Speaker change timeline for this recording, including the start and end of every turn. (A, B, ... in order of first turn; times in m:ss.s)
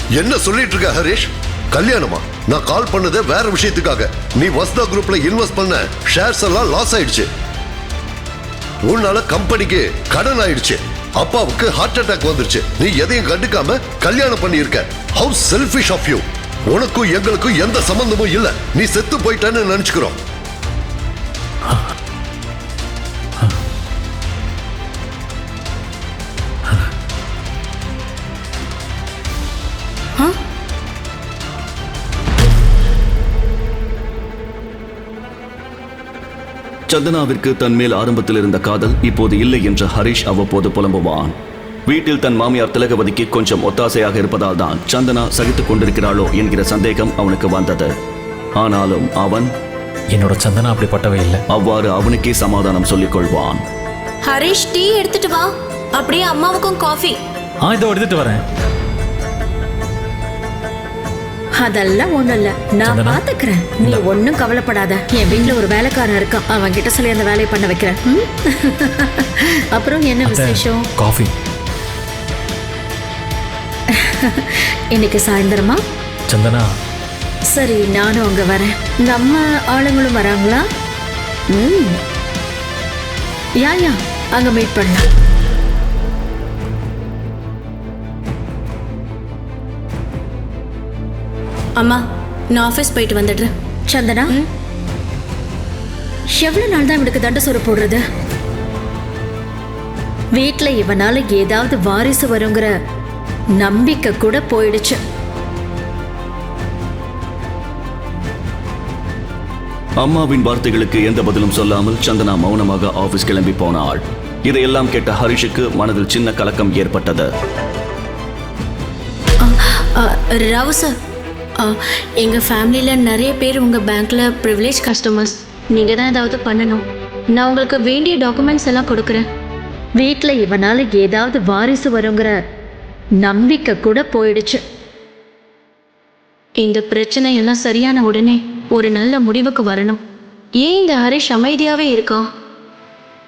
0:00.2-0:07.3 A
0:08.8-0:20.2 A
0:36.9-0:41.3 B
0:41.9-0:47.9 B
0:48.6-0:49.5 B
0:50.1-0:51.4 C
0:51.5-0:53.6 B
0:54.2-0:57.2 D
0:57.6-0:58.4 C
1:01.6-1:10.8 E
1:02.8-1:03.2 C
1:10.2-1:11.3 C
1:14.0-1:15.8 E
1:16.3-1:16.6 C
1:17.5-1:20.6 E
1:21.5-1:22.0 E
1:23.6-1:25.0 E
1:31.8-1:33.5 D
1:33.9-1:34.4 E
1:36.3-1:38.0 E
1:40.3-1:42.7 E
1:43.6-1:45.0 E
1:50.0-1:57.3 B
1:59.4-2:00.9 D
2:01.6-2:09.2 D
2:10.0-2:12.3 E
2:13.2-2:14.6 E
2:16.6-2:20.0 D
2:20.6-2:22.3 D